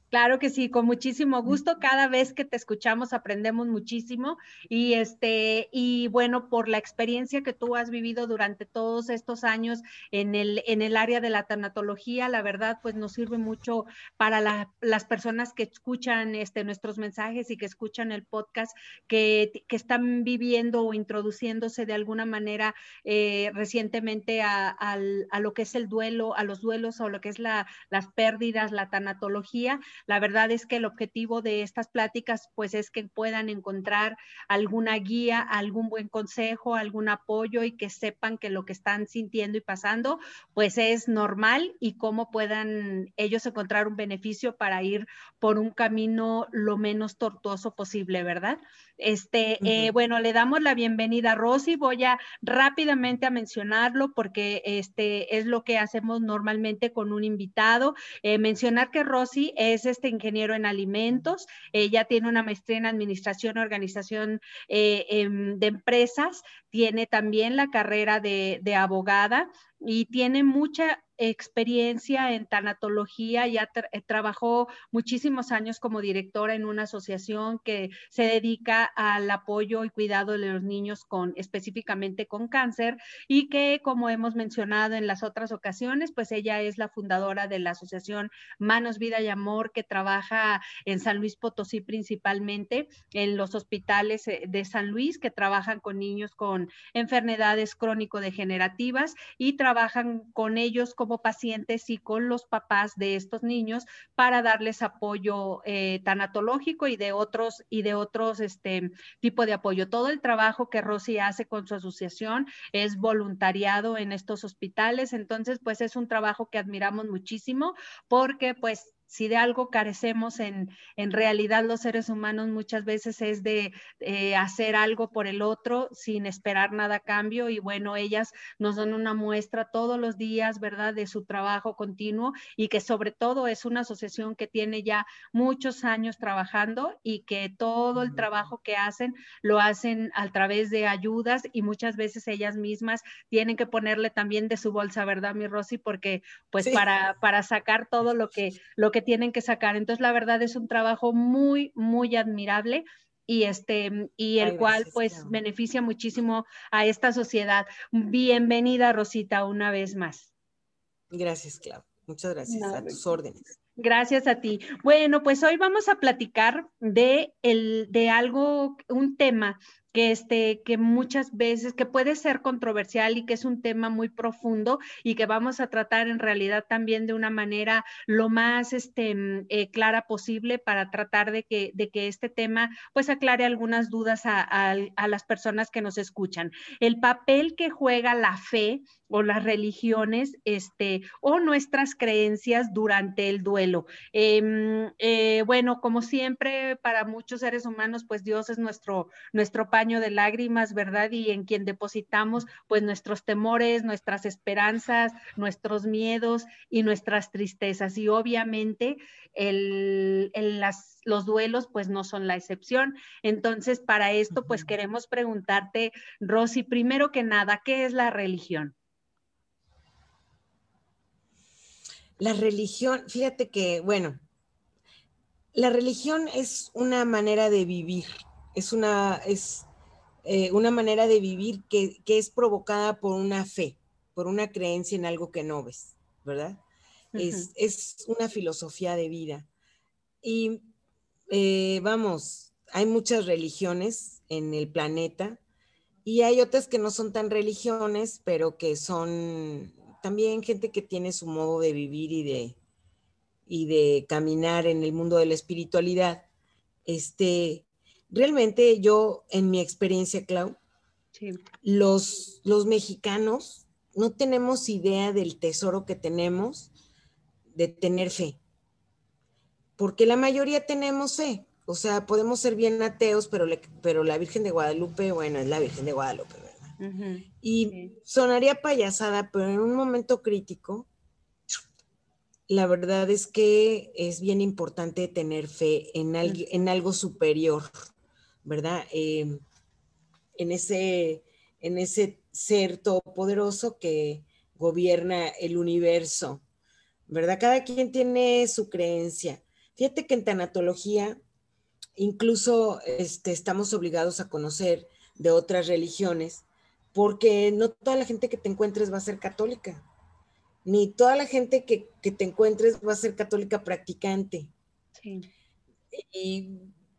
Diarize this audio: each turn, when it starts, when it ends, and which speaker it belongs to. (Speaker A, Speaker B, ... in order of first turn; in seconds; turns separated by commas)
Speaker A: 0.1-160.3, Speaker B: 49.6-49.9, Speaker B: 137.9-138.3, Speaker B: 154.4-155.3, Speaker B: 161.1-163.5, Speaker A: 162.5-163.0, Speaker A: 163.8-218.7, Speaker B: 214.3-214.7, Speaker B: 222.2-224.2, Speaker B: 225.5-229.7, Speaker B: 230.2-236.6, Speaker A: 237.1-237.5, Speaker B: 237.2-239.5, Speaker B: 240.2-240.6, Speaker B: 241.3-245.4, Speaker B: 246.0-252.6, Speaker B: 253.5-256.2, Speaker B: 256.9-260.6, Speaker A: 261.1-261.4, Speaker B: 261.6-266.7, Speaker B: 267.5-268.4, Speaker B: 269.8-276.7, Speaker A: 276.8-277.9, Speaker B: 277.4-280.9, Speaker B: 282.5-287.7, Speaker B: 288.4-289.4, Speaker B: 290.4-296.4, Speaker B: 297.1-301.2, Speaker B: 301.9-309.8, Speaker B: 310.6-314.5, Speaker A: 315.0-315.3, Speaker B: 315.9-316.6